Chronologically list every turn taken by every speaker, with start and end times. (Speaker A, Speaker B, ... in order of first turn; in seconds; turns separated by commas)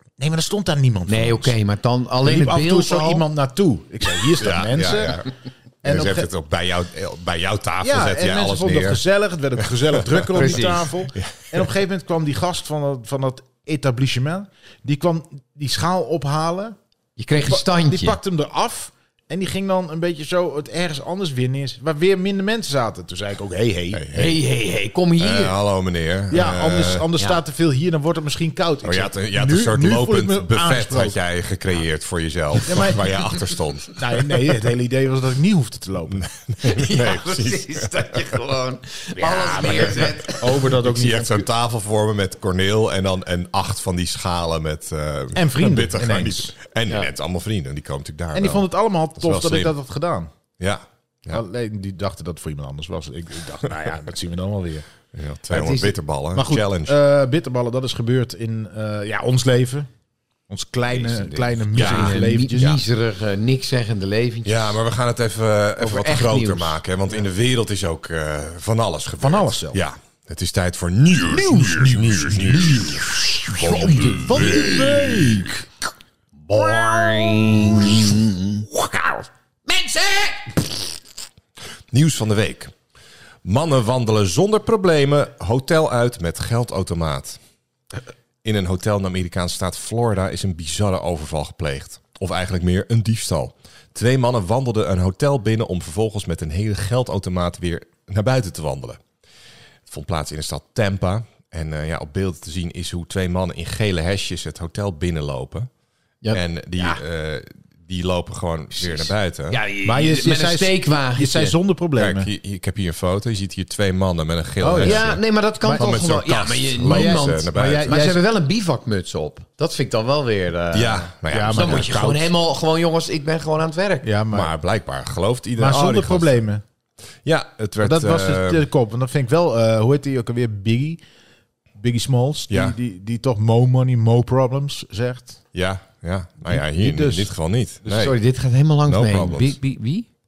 Speaker A: 0.2-1.6, Speaker B: 1.1-3.2, Speaker A: 2.2-5.2, Speaker C: 4.4-5.3, Speaker A: 5.8-6.3, Speaker C: 5.8-9.0, Speaker A: 7.8-16.8, Speaker C: 9.9-10.6, Speaker B: 10.3-10.9, Speaker C: 11.2-11.6, Speaker B: 17.2-18.2, Speaker A: 17.4-24.1, Speaker C: 23.9-24.4, Speaker B: 24.1-25.5, Speaker C: 25.2-27.1, Speaker A: 26.3-31.2, Speaker C: 28.8-34.4, Speaker A: 32.6-33.2, Speaker A: 33.9-36.2, Speaker C: 36.1-38.0, Speaker B: 36.6-40.7, Speaker A: 39.2-41.5, Speaker C: 39.5-49.7, Speaker A: 45.4-46.5, Speaker A: 48.3-50.3, Speaker C: 50.6-51.4, Speaker A: 51.3-54.9, Speaker C: 55.1-57.0, Speaker B: 55.5-56.0, Speaker A: 56.3-59.9, Speaker A: 60.5-62.8, Speaker B: 60.9-64.8, Speaker C: 61.7-62.8, Speaker C: 64.5-75.5, Speaker B: 65.8-66.8, Speaker A: 69.2-69.8, Speaker A: 71.3-73.0, Speaker B: 72.9-74.8, Speaker A: 74.0-75.6, Speaker B: 76.5-78.7, Speaker A: 77.1-77.5, Speaker B: 79.7-80.8, Speaker C: 81.9-82.7, Speaker C: 83.5-87.4, Speaker C: 88.4-99.0, Speaker C: 99.9-105.7, Speaker B: 106.2-107.0, Speaker C: 106.3-109.6, Speaker B: 108.8-111.5, Speaker A: 109.8-112.3, Speaker C: 112.0-118.0, Speaker A: 114.6-115.9, Speaker B: 114.8-124.1, Speaker A: 116.8-118.2, Speaker C: 120.7-122.0, Speaker A: 121.3-122.3, Speaker A: 124.0-124.5, Speaker C: 124.3-126.4, Speaker A: 125.6-126.6, Speaker C: 127.2-128.7, Speaker A: 127.8-131.0, Speaker A: 131.8-135.4, Speaker C: 132.5-132.8, Speaker C: 135.5-138.2, Speaker A: 136.4-137.3, Speaker A: 137.8-138.1, Speaker B: 138.0-140.1, Speaker C: 138.9-139.6